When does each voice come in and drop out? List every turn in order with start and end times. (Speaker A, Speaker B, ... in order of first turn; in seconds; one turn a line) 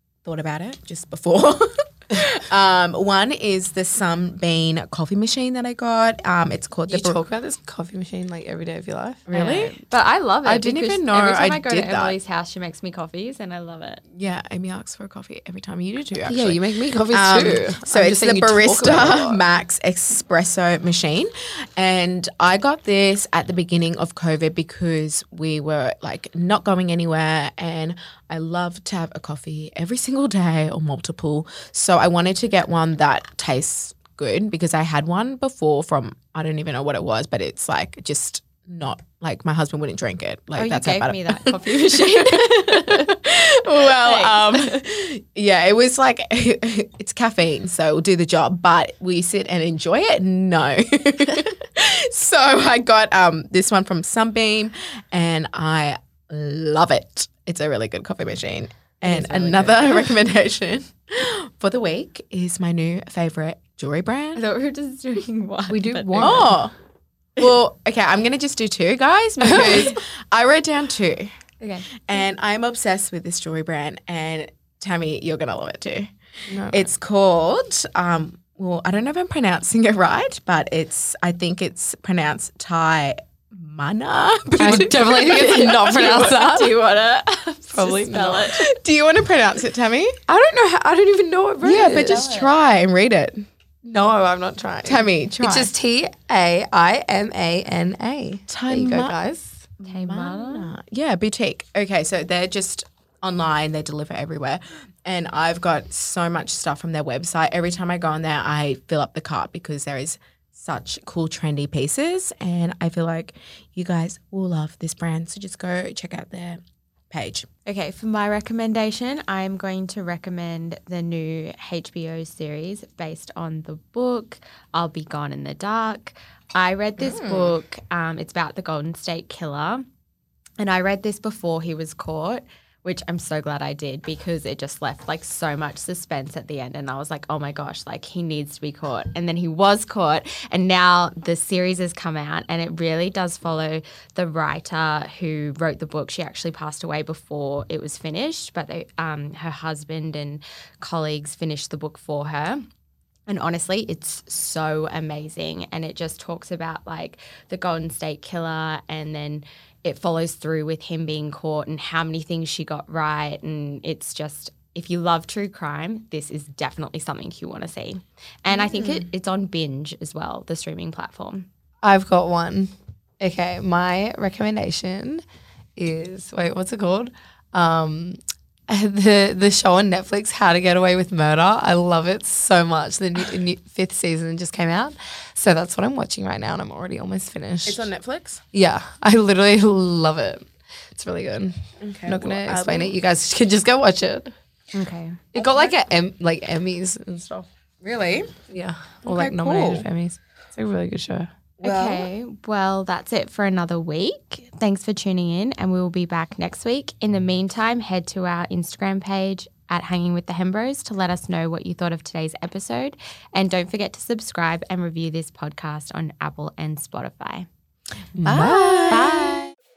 Speaker A: 0.2-7.2
Speaker B: 6.9-9.7
Speaker A: 9.3-9.8
Speaker C: 9.3-14.0
Speaker A: 10.4-12.2
Speaker A: 14.1-64.4
Speaker B: 16.2-19.4
Speaker C: 40.5-43.2
Speaker C: 43.8-44.8
Speaker C: 59.0-60.0
Speaker C: 64.3-66.5
Speaker B: 65.7-66.6
Speaker A: 66.2-66.7
Speaker A: 67.3-71.3
Speaker B: 69.5-69.9
Speaker C: 69.5-70.0
Speaker C: 71.6-72.0
Speaker A: 72.0-76.1
Speaker B: 76.5-76.8
Speaker A: 76.7-86.3
Speaker B: 84.6-86.8
Speaker C: 84.6-88.6
Speaker B: 87.7-88.6
Speaker A: 88.5-90.2
Speaker B: 90.3-92.3
Speaker A: 91.6-93.4
Speaker C: 91.9-92.5
Speaker B: 93.8-99.7
Speaker A: 94.8-95.7
Speaker A: 98.5-99.2
Speaker A: 99.8-117.5
Speaker C: 99.8-100.7
Speaker C: 117.6-129.9
Speaker A: 127.0-127.6
Speaker C: 130.6-152.7
Speaker C: 153.3-171.5
Speaker A: 168.5-169.0
Speaker B: 171.8-175.2
Speaker B: 175.8-178.2
Speaker B: 178.7-187.9
Speaker A: 187.6-188.4
Speaker B: 188.5-194.3
Speaker A: 191.8-192.9
Speaker C: 194.7-195.2
Speaker B: 195.3-197.4
Speaker A: 195.3-195.8
Speaker A: 197.8-198.3
Speaker B: 198.5-201.3
Speaker A: 199.0-199.9
Speaker A: 201.6-202.1
Speaker C: 201.6-217.5
Speaker B: 218.2-219.4
Speaker A: 218.2-219.4
Speaker C: 218.9-219.5